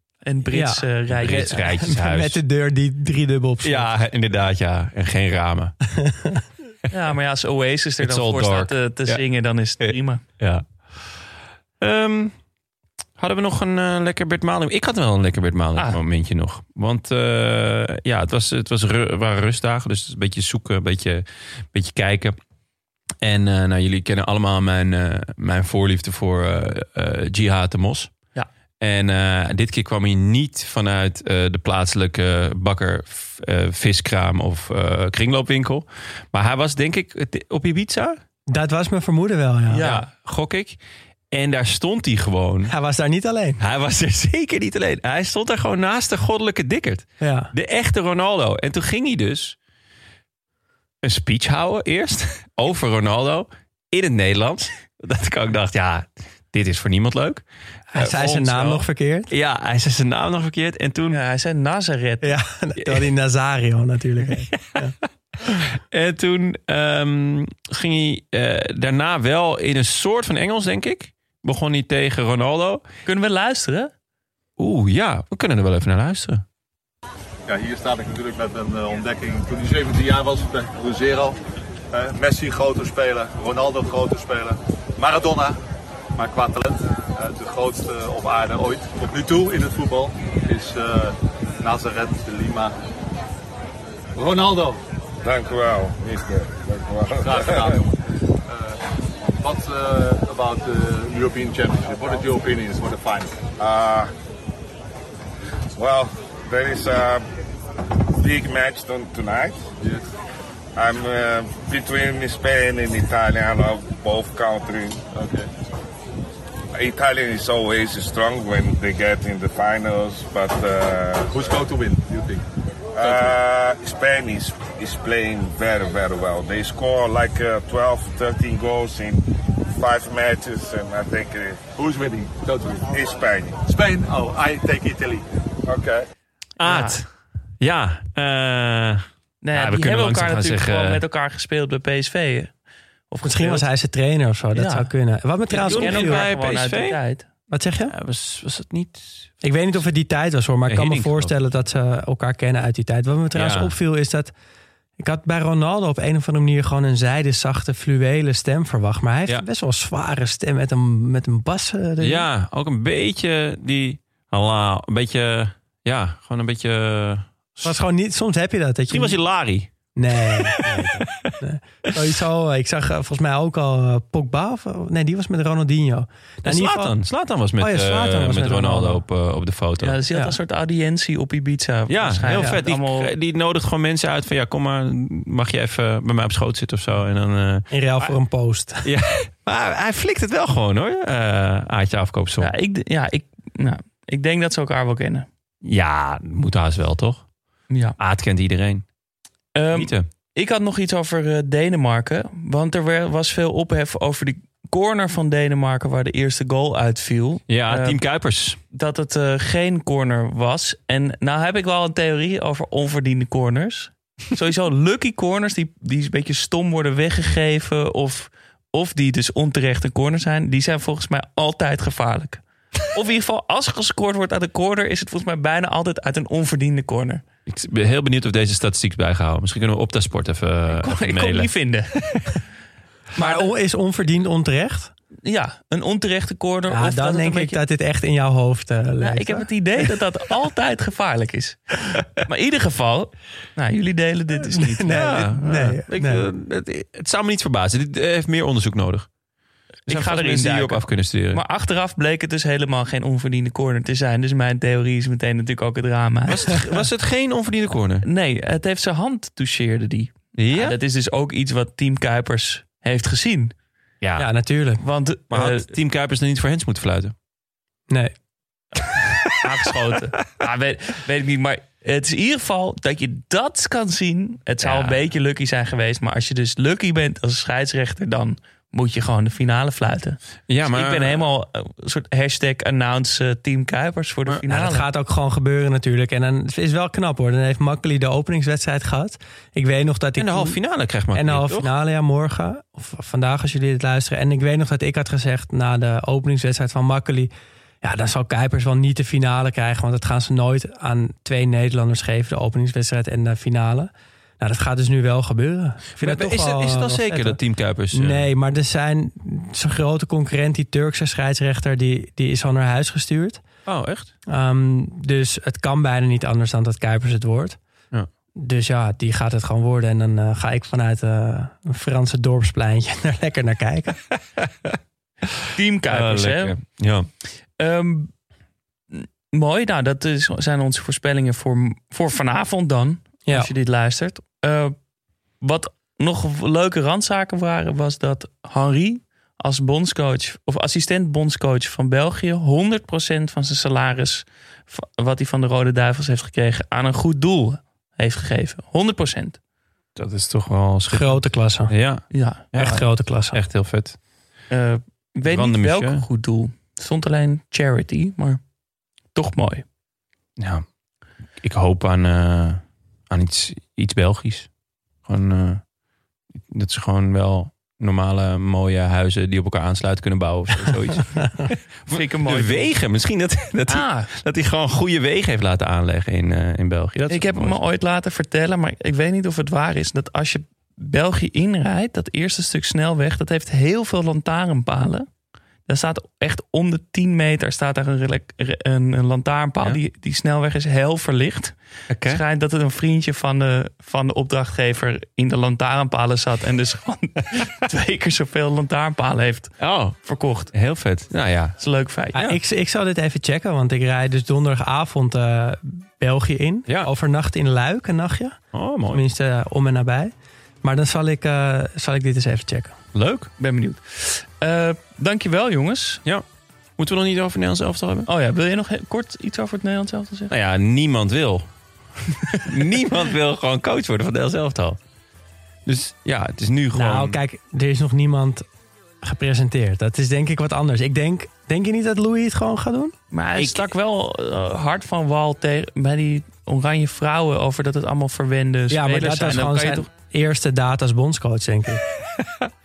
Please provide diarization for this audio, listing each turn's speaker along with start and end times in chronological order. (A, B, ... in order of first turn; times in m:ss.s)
0:00.2-0:01.6 A
0:00.5-0:03.9 B
0:01.1-0:02.4 C
0:03.6-0:05.7 C
0:06.9-0:10.2 A
0:08.0-0:09.2 C
0:09.8-0:11.2 C
0:11.8-0:12.4 C
0:13.2-0:22.4 C
0:23.2-0:28.1 C
0:28.8-0:38.2 C
0:38.5-0:39.8 B
0:39.7-0:40.1 A
0:39.7-0:40.8 C
0:41.3-0:42.7 C
0:42.7-0:43.6 B
0:43.6-0:49.6 C
0:47.2-0:47.5 B
0:51.0-1:01.2 C
0:57.9-0:59.3 B
1:01.1-1:02.2 A
1:02.2-1:04.9 B
1:04.5-1:04.9 C
1:05.7-1:12.8 C
1:13.0-1:13.9 A
1:14.6-1:16.4 C
1:17.5-1:21.4 D
1:21.9-1:25.6 D
1:26.1-1:32.7 D
1:34.2-1:34.8 D
1:35.2-1:37.8 E
1:37.2-1:37.9 D
1:38.5-1:38.8 D
1:39.4-1:43.4 D
1:43.6-1:44.1 E
1:45.8-1:47.2 E
1:48.2-1:49.6 E
1:49.8-1:50.0 D
1:50.8-1:55.0 E
1:55.1-1:55.5 D
1:56.7-2:01.6 E
2:01.3-2:02.4 D
2:02.9-2:11.6 E
2:03.0-2:03.4 D
2:11.8-2:12.9 D
2:12.9-2:13.6 E
2:13.6-2:15.2 D
2:15.6-2:16.0 E
2:16.6-2:21.0 C
2:16.6-2:17.0 A
2:19.4-2:22.5 A
2:23.1-2:23.7 A
2:23.2-2:26.3 B
2:24.5-2:24.9 A
2:25.5-2:27.2 A
2:25.5-2:27.0 C
2:27.5-2:27.9 B
2:27.9-2:29.4 C
2:29.4-2:34.3 B
2:30.7-2:31.3 C
2:33.3-2:33.7 C
2:35.0-2:42.2 B
2:42.0-2:47.8 C
2:47.6-2:49.2 B
2:48.9-2:51.0 C
2:49.9-2:57.0 B
2:56.4-3:00.0 C
2:57.6-2:59.0 B
2:59.8-3:03.1 A
3:01.9-3:08.2 C
3:07.7-3:08.9 B
3:08.8-3:12.5 C
3:12.4-3:15.3 A
3:15.6-3:17.3 C
3:17.7-3:18.0 A
3:18.0-3:18.9 C
3:19.5-3:28.0 A
3:19.7-3:20.1 C
3:27.5-3:28.6 C
3:28.7-3:47.2 A
3:47.5-3:51.5 C
3:50.7-3:52.0 A
3:53.1-3:54.9 B
3:53.2-3:53.5 A
3:55.2-3:57.6 A
3:56.7-3:59.5 B
3:59.0-4:05.3 A
4:04.5-4:06.2 B
4:04.9-4:09.1 C
4:09.8-4:16.8 A
4:09.9-4:11.4 C
4:16.3-4:18.0 C
4:18.0-4:23.5 A
4:20.4-4:20.8 C
4:24.0-4:24.3 C
4:24.2-4:24.8 B
4:24.8-4:25.7 A
4:25.3-4:27.1 C
4:29.4-4:44.9 A
4:34.6-4:35.0 C
4:40.5-4:41.2 C
4:44.5-4:50.6 B
4:50.2-4:51.7 C
4:51.1-5:07.4 B
5:06.0-5:08.3 C
5:07.9-5:13.4 B
5:13.6-5:14.1 C
5:14.3-5:17.6 B
5:18.4-5:24.0 B
5:24.1-5:24.8 C
5:25.5-5:26.6 A
5:25.9-5:27.1 C
5:27.6-5:28.1 A
5:28.9-5:34.7 A
5:35.4-5:49.4 A
5:49.9-5:54.0 C
5:50.9-5:51.7 B
5:52.1-5:52.5 A
5:52.5-5:53.4 B
5:54.5-5:58.4 A
5:55.2-5:56.0 C
5:59.1-5:59.6 A
6:00.4-6:00.6 C
6:01.4-6:04.5 C
6:05.0-6:05.6 C
6:06.4-6:17.6 C
6:11.9-6:12.7 A
6:13.7-6:14.1 A
6:17.1-6:25.1 A
6:25.7-6:40.7 A
6:31.9-6:32.2 C
6:39.6-6:40.0 C
6:40.5-6:41.6 C
6:41.6-6:42.3 A
6:42.2-6:50.1 B
6:48.5-6:49.0 C
6:50.6-6:52.8 B
6:52.9-6:53.3 C
6:53.4-6:56.0 A
6:56.8-6:58.1 C
6:58.0-7:00.3 A
7:00.3-7:01.5 C
7:02.4-7:04.8 C
7:05.6-7:07.2 C
7:06.7-7:08.4 B
7:09.0-7:12.9 B
7:13.1-7:19.9 A
7:13.4-7:13.6 C
7:18.7-7:21.8 B
7:22.2-7:22.5 C